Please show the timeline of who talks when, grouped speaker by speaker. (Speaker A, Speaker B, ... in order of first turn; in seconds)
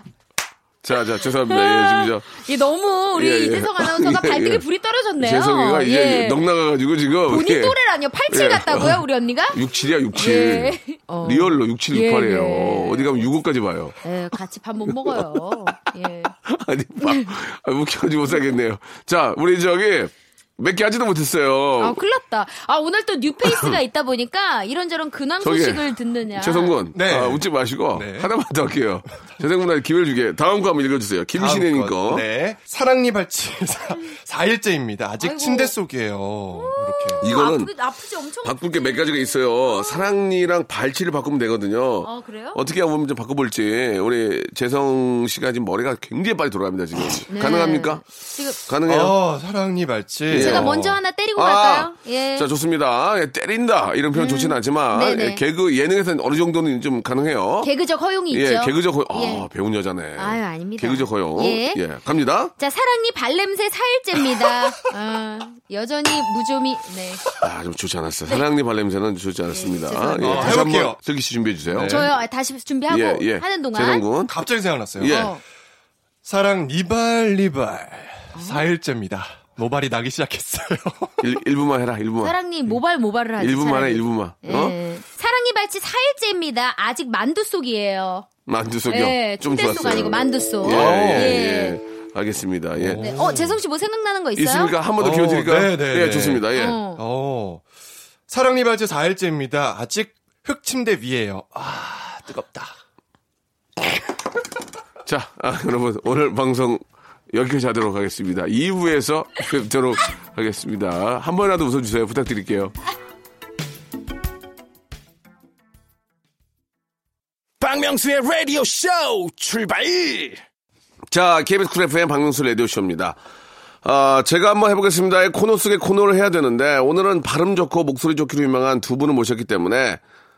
Speaker A: 0.8-2.3, 3.1-4.6, 5.2-7.8, 8.3-14.0, 14.9-15.7, 16.4-22.0, 23.4-23.8, 25.4-32.2, 37.2-37.7, 38.4-48.0, 48.6-49.2, 50.3-50.7, 51.4-57.7, 58.3-62.5, 67.4-72.1, 72.9-74.3, 75.0-75.3, 81.2-82.4, 83.4-84.8, 88.5-93.1, 94.4-96.8, 105.0-112.8, 121.1-123.2, 123.8-130.0
Speaker B: 1.5-6.4, 7.3-9.6, 10.2-13.2, 14.0-16.3, 17.0-17.3, 21.8-26.8, 35.2-35.8, 36.5-40.1, 42.0-42.6, 47.3-48.6, 50.3-52.5, 54.1-55.4, 57.6-59.5, 60.2-61.8, 62.6-67.3, 69.5-70.7, 71.8-74.1, 75.0-75.4, 78.3-78.6, 82.2-88.3, 88.9-91.8, 93.0-94.7, 96.6-97.0
Speaker C: 26.9-28.3, 31.3-37.2, 48.9-51.0, 70.2-71.0, 71.7-72.1, 74.3-75.2, 76.2-81.2, 90.6-91.4, 92.8-93.6, 95.0-97.6, 98.3-102.8
Speaker D: 117.6-120.3